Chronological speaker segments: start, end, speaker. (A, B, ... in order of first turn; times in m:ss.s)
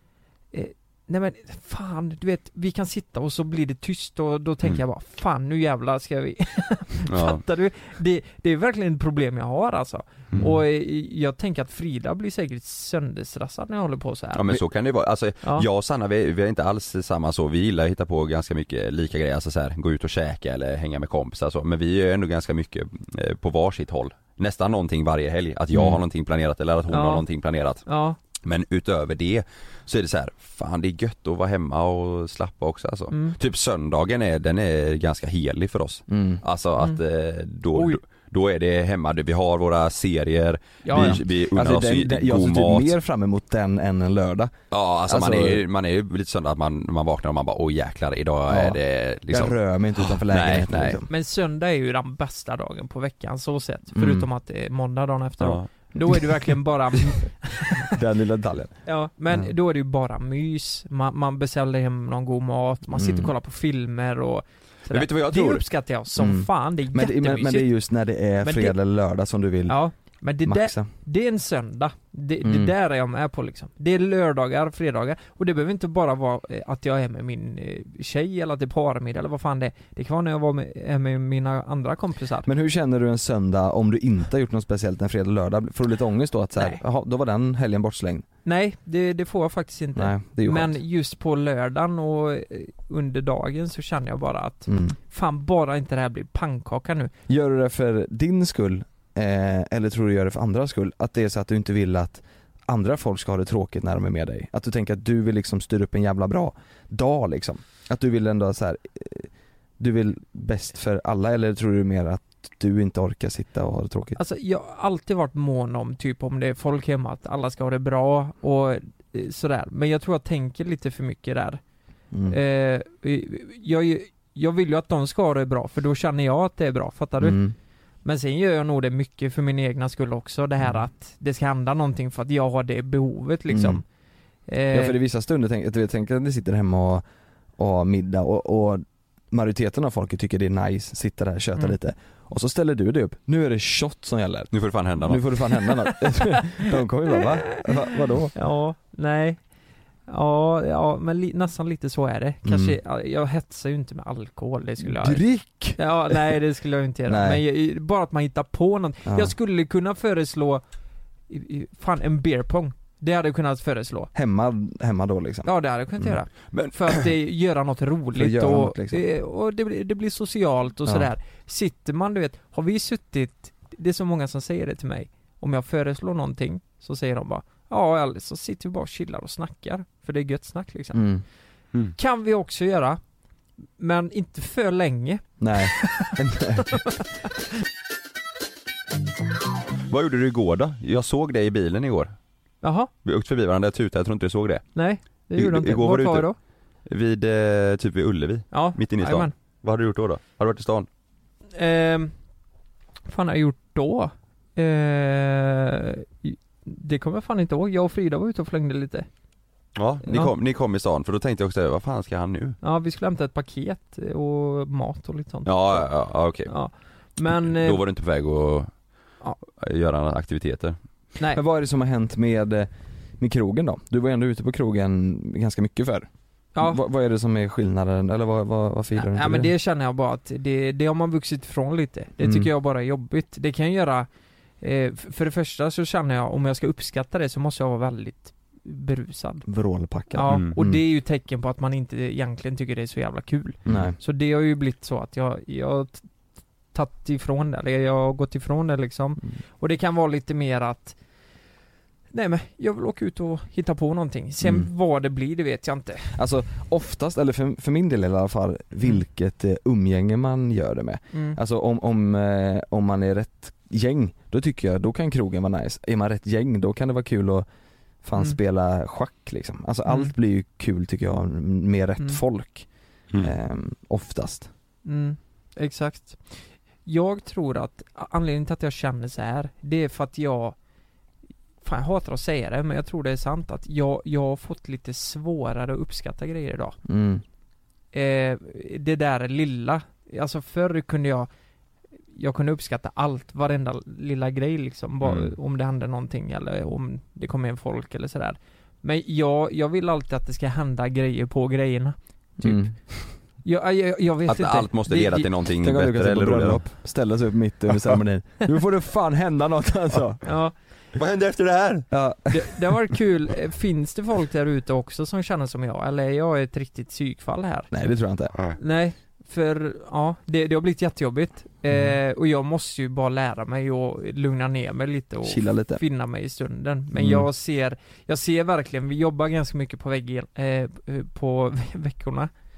0:00.5-0:14.6 A
0:07.1-0:07.4 B
0:14.4-0:27.8 B
0:26.9-0:27.2 A
0:27.8-0:28.2 A
0:28.4-0:42.9 B
0:33.1-0:33.4 A
0:36.1-0:36.4 C
0:37.7-0:38.0 A
0:40.8-0:41.2 A
0:40.9-0:44.5 C
0:44.7-0:51.0 B
0:45.1-0:45.6 C
0:48.5-0:51.1 C
0:51.1-0:57.9 A
0:53.9-0:54.2 C
0:55.4-0:55.7 B
0:57.9-0:58.8 C
0:58.8-1:07.7 A
1:02.9-1:03.3 C
1:04.9-1:05.6 B
1:06.2-1:09.8 C
1:08.4-1:08.7 A
1:09.7-1:22.5 A
1:10.4-1:10.9 C
1:12.4-1:12.7 C
1:22.4-1:28.2 C
1:26.6-1:26.8 A
1:28.4-1:37.1 A
1:30.0-1:30.8 C
1:34.7-1:35.0 C
1:37.3-1:54.2 C
1:54.2-2:01.6 A
2:02.1-2:02.4 C
2:02.3-2:07.4 A
2:07.2-2:07.5 C
2:08.0-2:13.8 A
2:13.5-2:13.8 C
2:14.5-2:14.9 A
2:14.7-2:17.0 C
2:17.6-2:28.3 C
2:24.5-2:25.3 B
2:28.3-2:29.4 A
2:30.1-2:35.2 A
2:32.4-2:32.8 C
2:34.8-2:36.4 C
2:35.8-2:40.6 A
2:37.1-2:37.4 C
2:39.0-2:39.3 C
2:41.3-2:44.1 A
2:44.1-2:45.5 C
2:45.4-3:01.0 A
2:48.1-2:49.0 C
3:00.9-3:01.2 C
3:02.0-3:03.0 A
3:03.8-3:06.1 A
3:05.4-3:06.8 C
3:09.9-3:12.1 B
3:12.6-3:12.9 A
3:13.0-3:14.7 B
3:14.7-3:16.4 A
3:15.3-3:16.3 B
3:16.8-3:20.9 B
3:18.5-3:19.3 A
3:21.5-3:22.1 A
3:23.1-3:29.1 A
3:29.8-3:32.6 B
3:30.0-3:30.3 A
3:32.6-3:37.8 A
3:35.4-3:36.5 B
3:37.4-3:38.7 B
3:39.6-3:40.8 B
3:41.3-3:46.1 C
3:46.5-3:46.8 A
3:46.6-3:49.5 C
3:49.0-3:54.1 A
3:52.2-3:52.5 C
3:54.6-3:59.4 A
3:59.4-4:00.8 C
4:00.1-4:06.1 A
4:03.7-4:04.0 C
4:06.7-4:11.0 A
4:12.1-4:16.1 A
4:14.4-4:14.7 C
4:16.1-4:27.4 C
4:21.1-4:21.4 A
4:28.0-4:32.7 C
4:29.8-4:30.1 A
4:33.2-4:34.5 C
4:34.8-4:40.6 A
4:41.6-4:46.8 A
4:46.8-4:47.2 C
4:47.9-4:51.3 A
4:52.1-5:02.7 A
5:02.4-5:03.1 C
5:03.4-5:05.3 A
5:04.3-5:06.7 B
5:05.6-5:10.2 C
5:10.2-5:10.5 A
5:11.0-5:11.9 B
5:11.9-5:12.6 C
5:12.3-5:17.7 A
5:17.7-5:18.4 C
5:18.6-5:32.3 A
5:25.2-5:25.8 C
5:26.9-5:27.3 C